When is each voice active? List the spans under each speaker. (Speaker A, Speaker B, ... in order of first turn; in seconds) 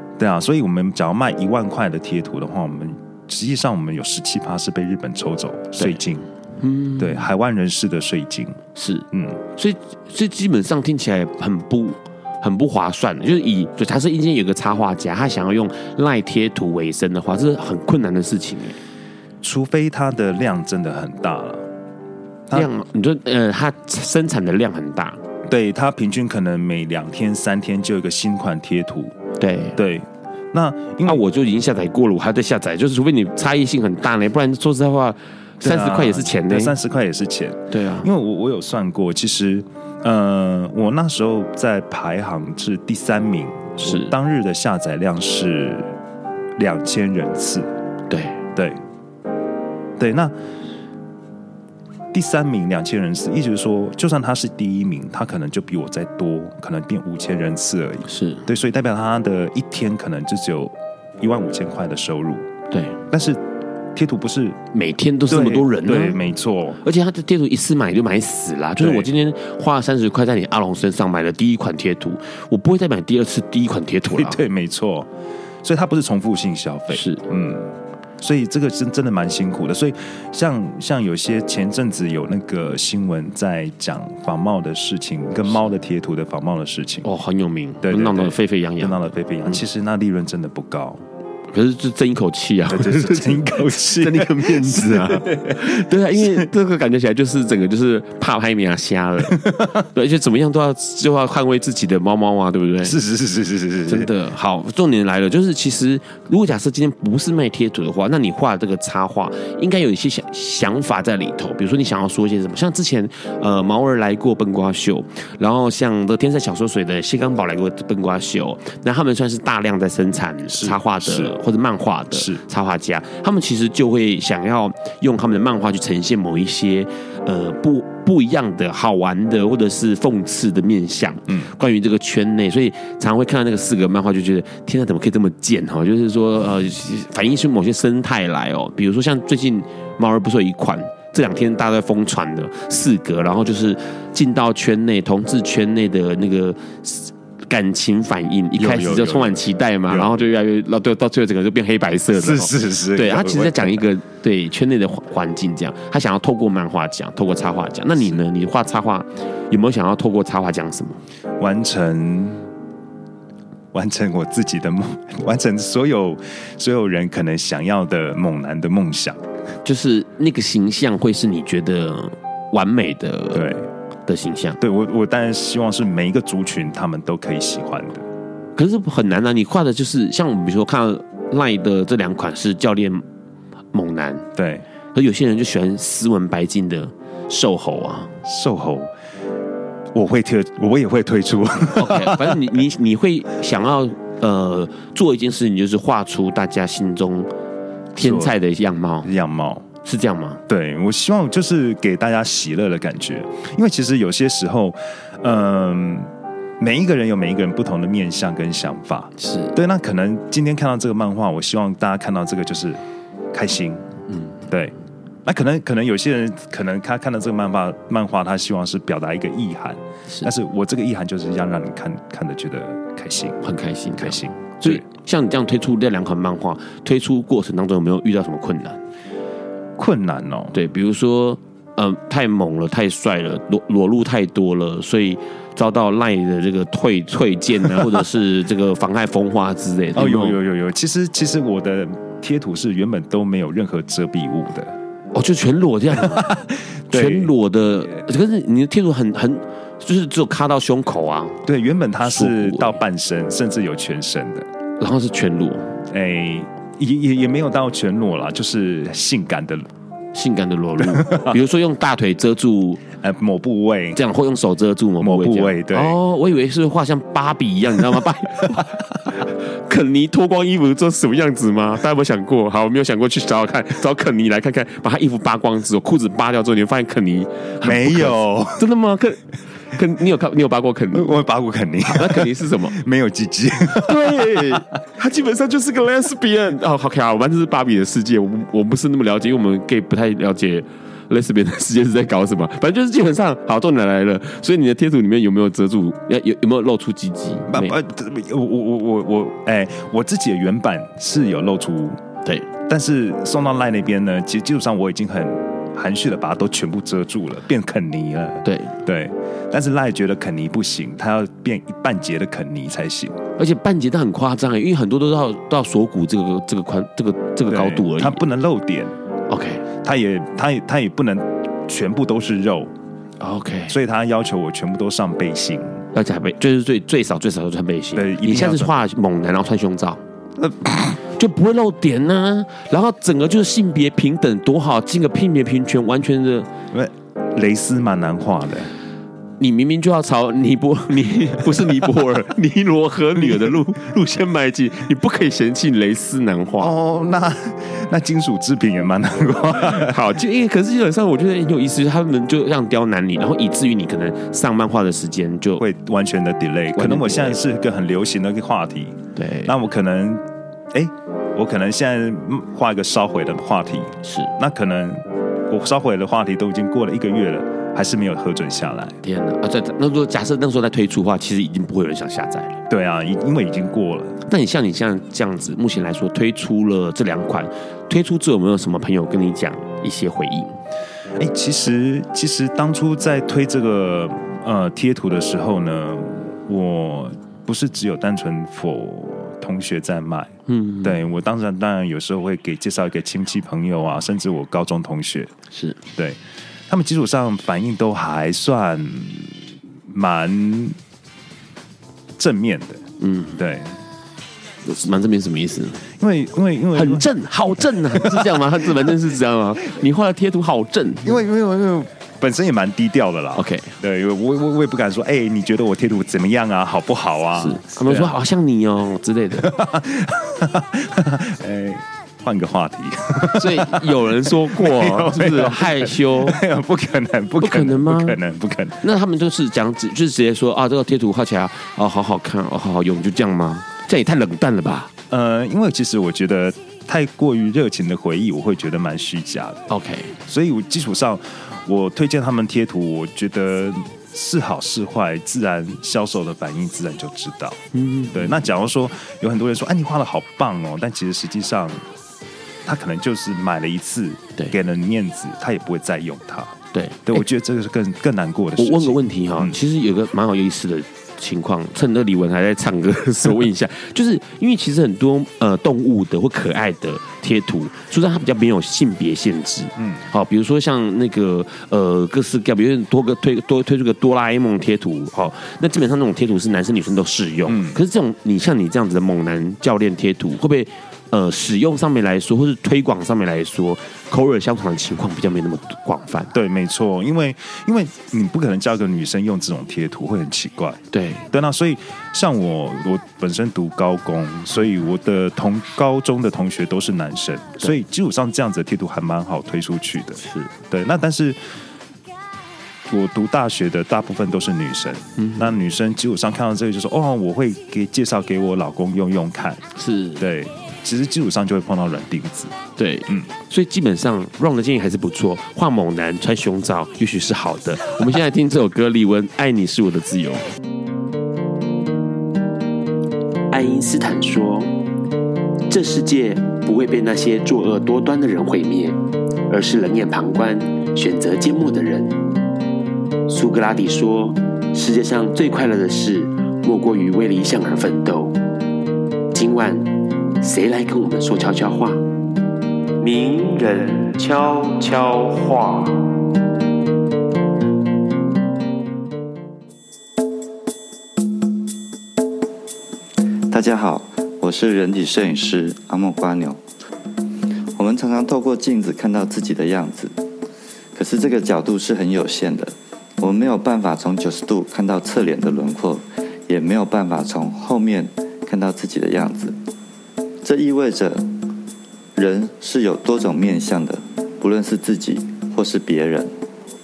Speaker A: 0.2-6.3, 7.0-8.6, 9.1-9.4, 19.4-21.6, 22.5-22.7, 25.5-29.1, 29.8-31.2, 35.6-45.9, 46.6-47.7, 48.5-48.8, 50.0-50.3, 52.1-62.5, 63.1-63.4, 63.9-64.6, 65.3-66.8, 68.8-69.1, 74.1-75.1, 75.6-87.1, 87.8-91.0, 92.7-96.5, 99.3-99.7, 102.8-104.1, 120.5-121.3, 122.1-122.4, 148.6-150.2, 152.1-153.8, 161.4-162.4, 163.7-169.2, 173.3-173.7, 174.6-178.1, 184.3-184.6, 188.2-188.9, 189.9-192.5, 198.0-198.3, 199.0-199.7, 200.5-213.8, 214.5-214.7, 215.2-223.4, 224.0-224.8, 229.8-230.5, 237.7-238.0, 239.9-244.7, 245.9-247.3, 251.4-254.5, 255.9-259.7, 260.8-261.4, 263.0-264.0, 265.0-266.0, 277.6-278.6, 280.9-284.5, 297.5-302.0, 302.6-313.2, 317.5-318.9, 319.8-322.7, 323.7-325.8, 327.9-328.7, 330.4-330.8, 336.7-338.7, 343.2-343.5, 346.6-350.0, 355.6-369.0, 372.7-374.2, 381.2-395.3, 395.9-400.8, 402.2-402.8, 403.4-403.8, 406.0-408.9, 411.0-418.2, 419.4-428.8, 435.1-439.7, 440.2-447.6, 448.1-451.8, 452.6-459.6, 469.8-470.0, 477.4-477.8, 486.3-501.4, 502.9-509.6, 510.2-512.5
Speaker B: 6.6-7.2, 8.7-18.8, 22.5-25.2, 29.4-29.8, 31.0-36.7, 37.7-38.1, 43.8-44.1, 48.1-48.4, 58.1-58.5, 62.7-63.0, 64.7-66.2, 66.8-74.4, 76.9-77.2, 87.0-89.6, 91.5-103.0, 103.9-161.0, 169.6-173.5, 174.1-174.6, 178.6-183.0, 183.7-184.3, 184.9-188.2, 191.7-197.3, 197.9-199.1, 199.8-200.4, 209.2-209.5, 214.1-214.3, 223.4-228.8, 230.5-240.4, 245.1-246.3, 246.9-251.4, 252.0-252.8, 254.8-255.7, 260.1-262.8, 263.9-281.1, 281.9-282.8, 283.7-297.8, 308.4-308.7, 313.4-318.2, 319.3-319.6, 323.2-323.8, 325.9-330.0, 331.1-336.5, 339.4-346.7, 349.6-355.6, 356.7-357.4, 359.1-359.5, 364.0-364.3, 369.0-372.5, 374.3-380.6, 390.5-391.0, 395.5-395.8, 403.0-403.4, 404.6-405.8, 406.7-411.2, 413.3-413.7, 417.4-419.5, 423.3-426.4, 427.4-428.2, 428.8-434.9, 439.7-440.1, 447.7-448.4, 456.7-457.2, 458.6-486.3, 490.9-491.2, 500.2-500.5, 505.2-505.5, 509.8-510.2, 512.8-520.5, 523.5-524.7, 525.7-529.0, 529.5-532.1, 533.3-538.4, 539.3-542.0, 543.0-546.0
Speaker C: 553.5-556.6, 557.8-560.1, 560.9-569.5, 570.4-571.3, 572.1-576.3